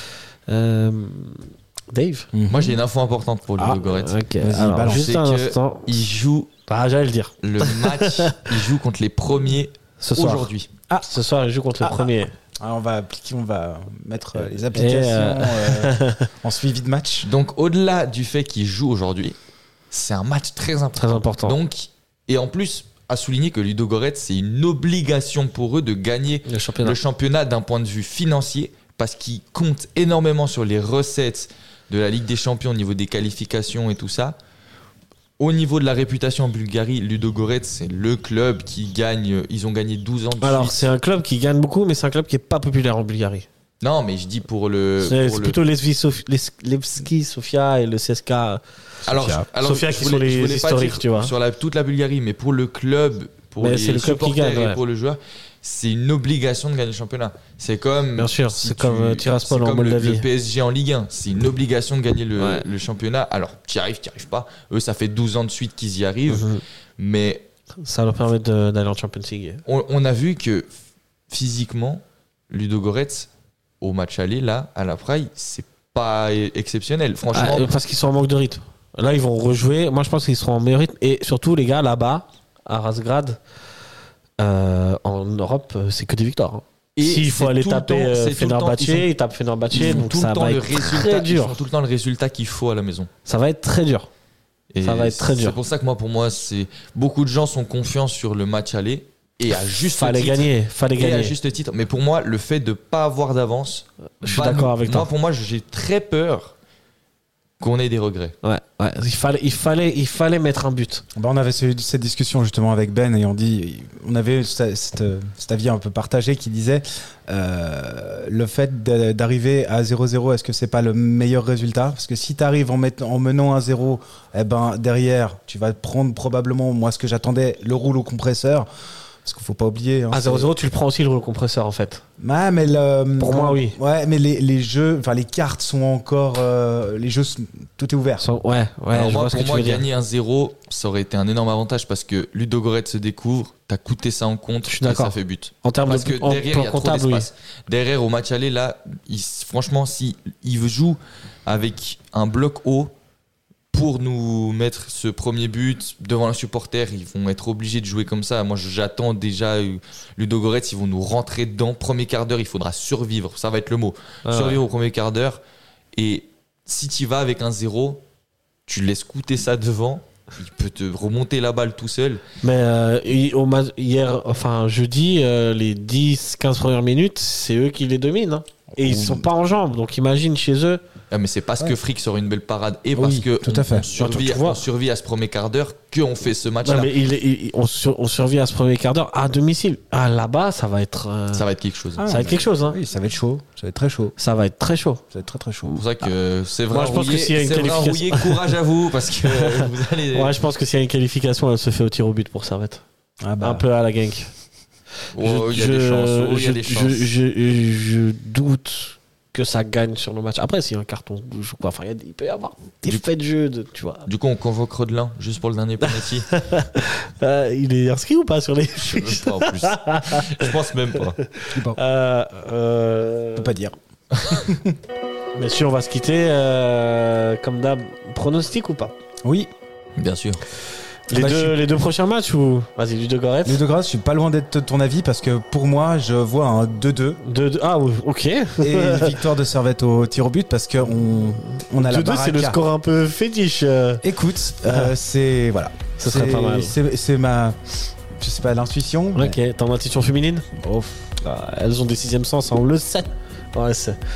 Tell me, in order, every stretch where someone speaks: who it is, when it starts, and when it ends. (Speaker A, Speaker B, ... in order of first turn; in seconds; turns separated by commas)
Speaker A: 0.5-2.3, Speaker B: 2.3-2.8, Speaker C: 2.5-4.2, Speaker A: 3.6-6.0, Speaker B: 4.4-5.1, Speaker C: 4.8-6.5, Speaker A: 6.7-8.5, Speaker C: 7.4-10.7, Speaker A: 10.0-10.5, Speaker A: 11.0-12.3, Speaker B: 11.8-17.3, Speaker A: 14.7-16.3, Speaker C: 17.2-19.4, Speaker C: 19.9-34.4, Speaker A: 21.0-21.6, Speaker A: 26.5-27.0, Speaker C: 35.4-40.9, Speaker A: 40.4-43.5, Speaker C: 43.8-45.6, Speaker A: 45.0-48.6, Speaker C: 49.1-67.5, Speaker B: 49.1-49.5, Speaker A: 49.5-51.3, Speaker A: 53.6-54.8, Speaker A: 58.2-60.3, Speaker A: 62.4-62.7, Speaker A: 66.3-66.6, Speaker A: 67.8-69.6, Speaker C: 69.7-70.7, Speaker C: 71.3-73.3, Speaker C: 73.8-77.8, Speaker A: 77.3-83.4, Speaker A: 84.4-91.6, Speaker C: 87.0-89.1, Speaker C: 89.7-93.1, Speaker A: 93.2-94.1, Speaker C: 94.7-106.6, Speaker A: 94.8-95.6, Speaker A: 99.8-101.4, Speaker A: 104.2-105.1, Speaker C: 107.6-108.4, Speaker A: 108.4-111.0, Speaker B: 111.2-128.7, Speaker B: 129.2-130.5, Speaker A: 130.1-132.0, Speaker B: 132.2-138.2, Speaker A: 133.2-133.8, Speaker A: 138.2-139.9, Speaker C: 138.9-152.9, Speaker A: 144.7-147.3, Speaker C: 153.7-165.4, Speaker A: 164.2-164.6, Speaker C: 165.9-168.0, Speaker C: 168.7-172.2, Speaker A: 172.4-180.8, Speaker B: 178.8-179.3, Speaker C: 181.1-186.9, Speaker B: 182.9-183.9, Speaker A: 184.0-184.6, Speaker A: 186.6-191.5, Speaker C: 191.3-192.1, Speaker B: 192.0-194.2, Speaker A: 192.1-192.8, Speaker A: 194.2-195.0, Speaker B: 195.1-195.8, Speaker C: 195.7-200.4, Speaker A: 196.7-198.5, Speaker A: 199.2-202.8, Speaker B: 203.2-203.7, Speaker A: 203.4-204.3, Speaker C: 205.1-207.1, Speaker A: 205.2-214.1, Speaker C: 214.1-216.3, Speaker A: 215.8-220.5, Speaker C: 218.8-221.2, Speaker A: 221.4-223.5, Speaker B: 221.5-221.8, Speaker B: 223.4-223.8, Speaker C: 224.1-224.5, Speaker B: 224.4-224.8, Speaker A: 225.4-228.9, Speaker B: 229.2-229.5, Speaker C: 230.0-230.4, Speaker A: 231.1-233.6, Speaker B: 231.1-231.6, Speaker B: 233.4-237.2, Speaker A: 237.2-239.2, Speaker B: 238.6-242.6, Speaker A: 241.8-244.0, Speaker B: 244.0-247.6, Speaker A: 246.0-246.8, Speaker B: 248.2-249.4, Speaker A: 249.2-250.5, Speaker B: 250.6-251.2, Speaker A: 251.2-254.0